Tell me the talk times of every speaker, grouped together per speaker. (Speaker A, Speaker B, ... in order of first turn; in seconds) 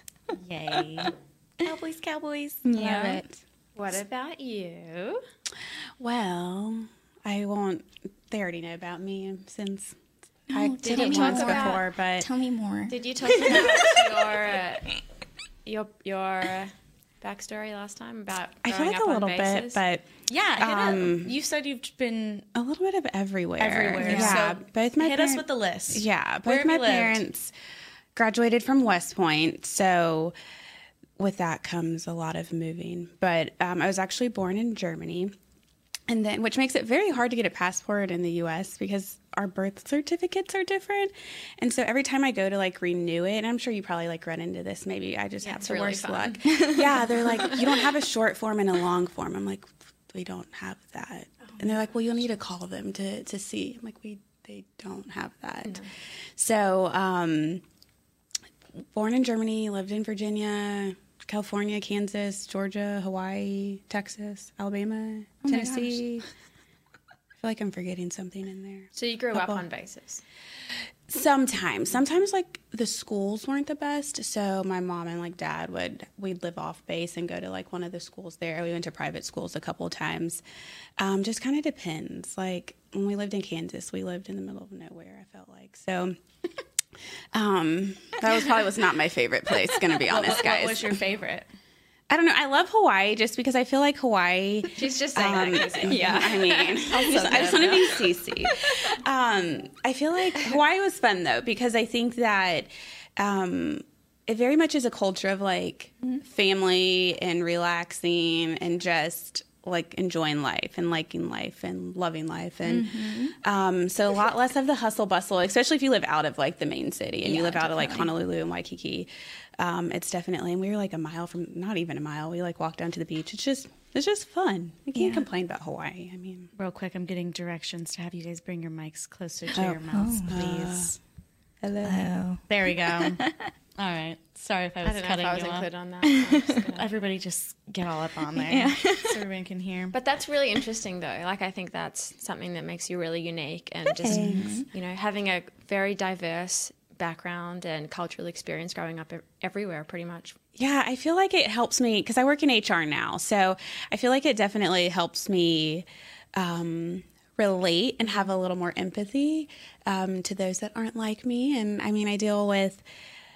Speaker A: 0.3-1.1, 1.6-2.6, 20.3-22.5, 23.6-27.2, 90.0-91.5, 126.5-130.9, 132.5-133.2, 133.8-135.7, 136.8-139.9
Speaker B: 2.6-3.4, 6.0-9.9, 10.5-12.3, 18.6-21.4, 22.5-27.5, 28.1-30.3, 31.2-35.3, 36.1-55.9, 56.4-57.6, 58.9-66.2, 67.4-69.6, 71.1-80.4, 81.0-86.2, 87.3-91.0, 92.1-126.5, 129.5-130.9, 131.6-132.0, 144.0-144.5, 150.6-162.8
Speaker C: 2.7-3.2, 10.5-13.8, 24.0-24.4, 46.5-46.8, 65.4-66.0, 95.9-97.7, 112.7-113.3, 117.2-118.2, 124.9-125.2, 129.9-130.8, 131.8-133.5, 136.1-136.6, 138.4-139.1, 144.0-144.7
Speaker D: 3.8-5.2, 10.8-11.8, 12.9-14.9, 15.6-19.8, 45.4-46.8, 68.9-70.2, 94.8-98.0, 134.8-136.9, 139.9-150.3